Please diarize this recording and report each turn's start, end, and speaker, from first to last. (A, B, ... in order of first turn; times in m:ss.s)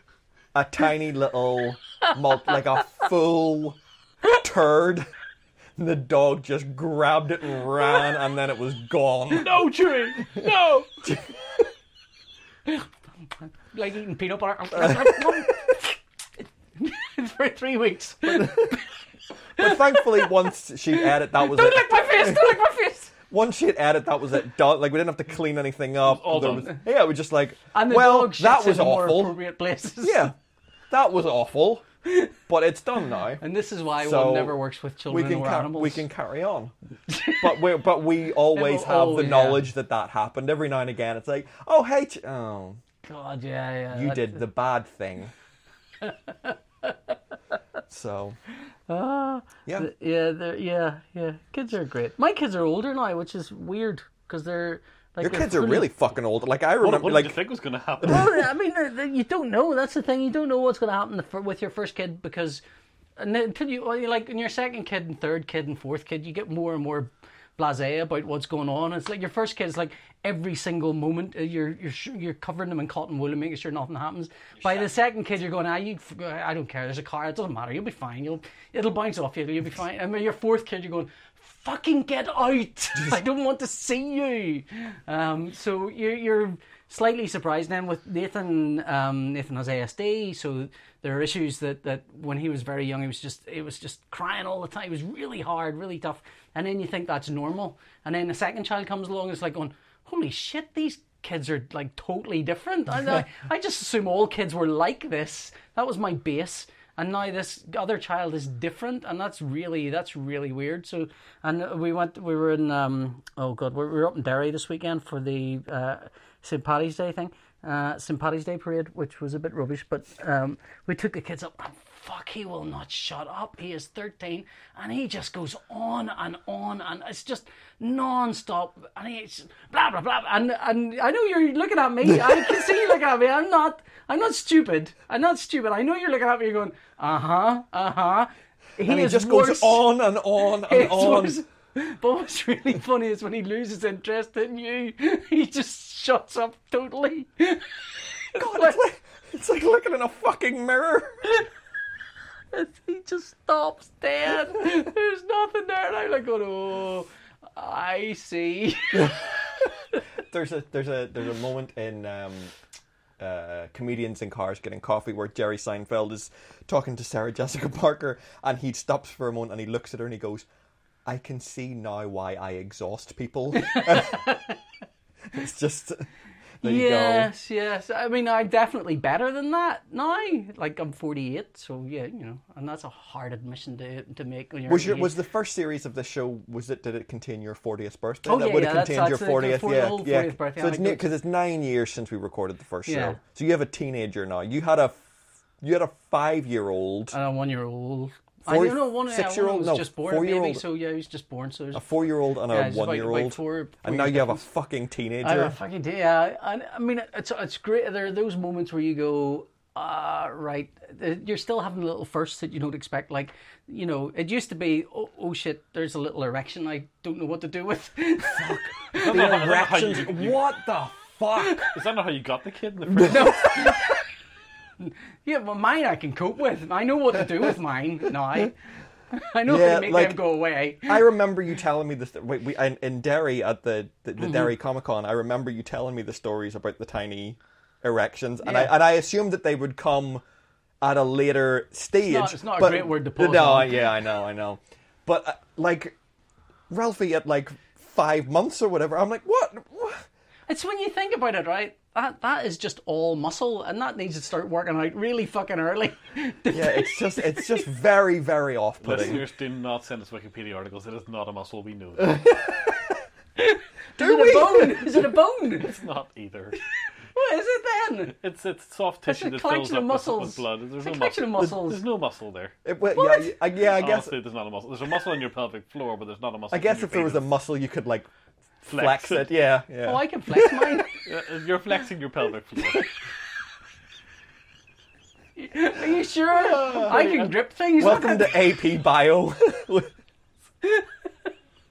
0:00.5-0:05.1 A
0:05.8-0:09.5 A
0:09.3-0:11.1 B
0:13.7-0:16.0 C
0:14.8-0:15.5 A
0:16.8-0:18.9 C
0:18.3-0:18.8 A
0:19.6-0:22.6 A
0:19.6-0:20.3 C
0:20.9-0:23.1 C
0:23.3-0:29.4 A
0:26.0-0:26.7 B
0:27.7-0:30.3 C
0:30.0-0:30.4 A
0:30.9-0:31.8 A
0:32.1-0:32.3 C
0:32.5-0:33.4 A
0:33.4-0:36.0 C
0:34.0-0:36.7 A
0:37.1-0:37.6 C
0:37.4-0:42.8 A
0:38.5-0:39.6 C
0:43.0-0:44.5 C
0:43.9-0:45.3 A
0:46.0-0:47.2 C
0:47.9-0:48.4 A
0:48.9-0:55.9 C
0:55.2-0:57.4 A
0:56.8-0:58.5 B
0:58.0-1:02.6 C
1:03.2-2:20.0 C
2:12.1-2:12.7 A
2:18.8-2:21.4 A
2:20.6-2:27.7 C
2:28.3-2:28.8 C
2:28.4-2:31.4 A
2:32.5-2:39.3 C
2:40.2-2:42.5 A
2:43.2-2:50.5 A
2:51.1-2:54.3 A
2:53.6-2:54.5 C
2:55.3-2:56.0 A
2:56.6-2:57.3 A
2:56.6-3:05.2 C
3:04.7-3:15.0 A
3:08.2-3:11.1 C
3:12.9-3:13.2 C
3:15.6-3:17.2 A
3:17.1-3:21.9 C
3:18.5-3:20.6 A
3:21.7-3:25.6 A
3:22.5-3:24.4 C
3:25.2-3:39.1 C
3:38.3-3:41.7 A
3:38.9-3:40.4 B
3:41.4-3:41.7 C
3:41.7-3:43.5 B
3:42.9-3:43.8 A
3:43.0-3:44.0 C
3:44.8-3:48.6 C
3:49.1-3:51.1 C
3:49.5-3:50.2 A
3:50.9-4:00.2 A
3:54.2-3:54.5 C
3:58.4-3:58.7 C
4:00.8-4:06.0 A
4:02.1-4:03.8 C
4:06.7-4:10.0 A
4:10.5-4:17.6 C
4:16.5-4:19.2 A
4:18.8-4:22.3 B
4:22.1-4:22.7 A
4:23.4-4:25.8 C
4:24.0-4:25.1 A
4:25.6-4:26.6 B
4:26.8-4:28.2 C
4:28.2-4:32.5 B
4:29.1-4:31.8 C
4:32.6-4:34.2 A
4:32.9-4:33.3 C
4:33.6-4:37.2 B
4:36.5-4:38.1 A
4:38.7-4:39.3 B
4:38.7-4:40.9 A
4:39.8-4:41.0 C
4:41.0-4:42.9 B
4:45.4-4:48.4 C
4:46.5-4:47.2 A
4:47.8-4:49.9 A